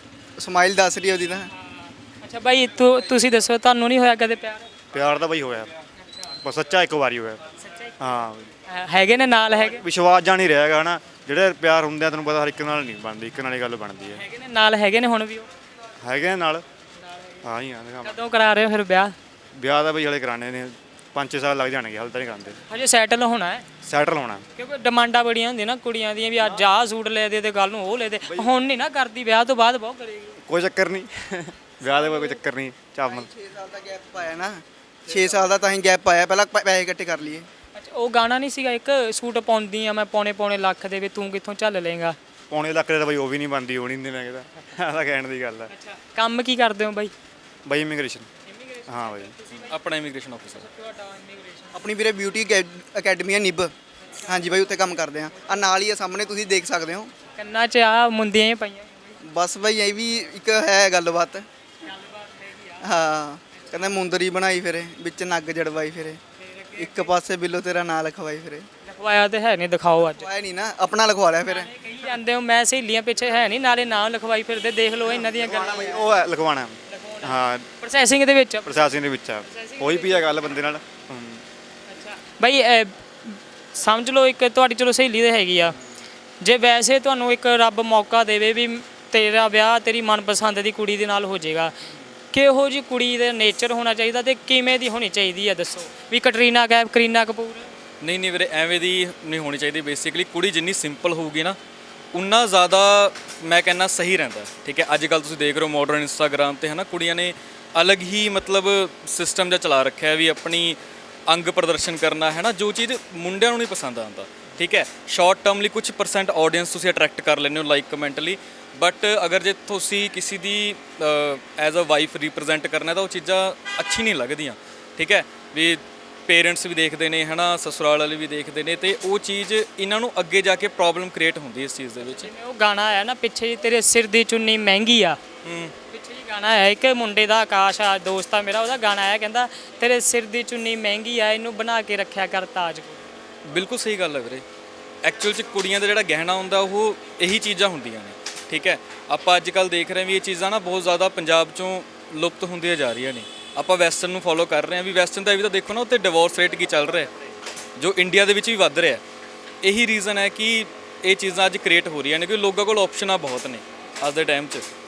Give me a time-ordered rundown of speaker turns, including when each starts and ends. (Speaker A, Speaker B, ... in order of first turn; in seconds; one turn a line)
Speaker A: 0.4-1.5
Speaker B: 1.6-4.7
Speaker C: 4.9-5.7
Speaker B: 6.0-6.4
Speaker C: 6.4-7.4
Speaker B: 7.6-8.1
Speaker C: 8.0-8.5
Speaker B: 8.7-9.8
Speaker C: 9.7-14.2
Speaker B: 14.2-15.5
Speaker C: 16.0-16.6
Speaker C: 17.4-18.2
Speaker B: 18.0-19.2
Speaker C: 19.6-22.6
Speaker B: 22.7-23.7
Speaker C: 23.8-24.5
Speaker B: 24.6-30.4
Speaker C: 28.3-28.5
Speaker C: 30.4-33.3
Speaker A: 31.9-32.4
Speaker A: 33.0-37.5
Speaker C: 35.1-35.4
Speaker B: 37.8-42.2
Speaker C: 42.5-45.7
Speaker B: 45.7-47.1
Speaker C: 47.6-48.3
Speaker B: 48.5-49.8
Speaker C: 48.9-49.3
Speaker D: 49.7-50.7
Speaker B: 50.6-51.8
Speaker A: 51.7-53.7
Speaker B: 54.1-54.6
Speaker A: 54.2-57.1
Speaker B: 57.3-59.2
Speaker A: 59.2-61.5
Speaker B: 61.8-62.9
Speaker A: 62.8-66.2
Speaker B: 63.6-63.9
Speaker B: 66.4-67.2
Speaker A: 66.8-68.7
Speaker B: 68.8-70.3
Speaker A: 70.0-71.7
Speaker B: 71.5-76.1
Speaker C: 75.3-77.7
Speaker B: 76.9-78.8
Speaker C: 78.7-81.4
Speaker B: 79.4-80.4
Speaker B: 81.9-85.8
Speaker B: 86.4-91.7
Speaker B: 92.3-97.7
Speaker D: 98.0-101.6
Speaker D: 102.1-132.3
Speaker B: 132.0-135.2
Speaker D: 135.4-135.7
Speaker B: 135.9-143.1
Speaker D: 143.5-144.4
Speaker D: 145.0-157.1
Speaker D: 157.8-159.0
Speaker D: 159.6-164.7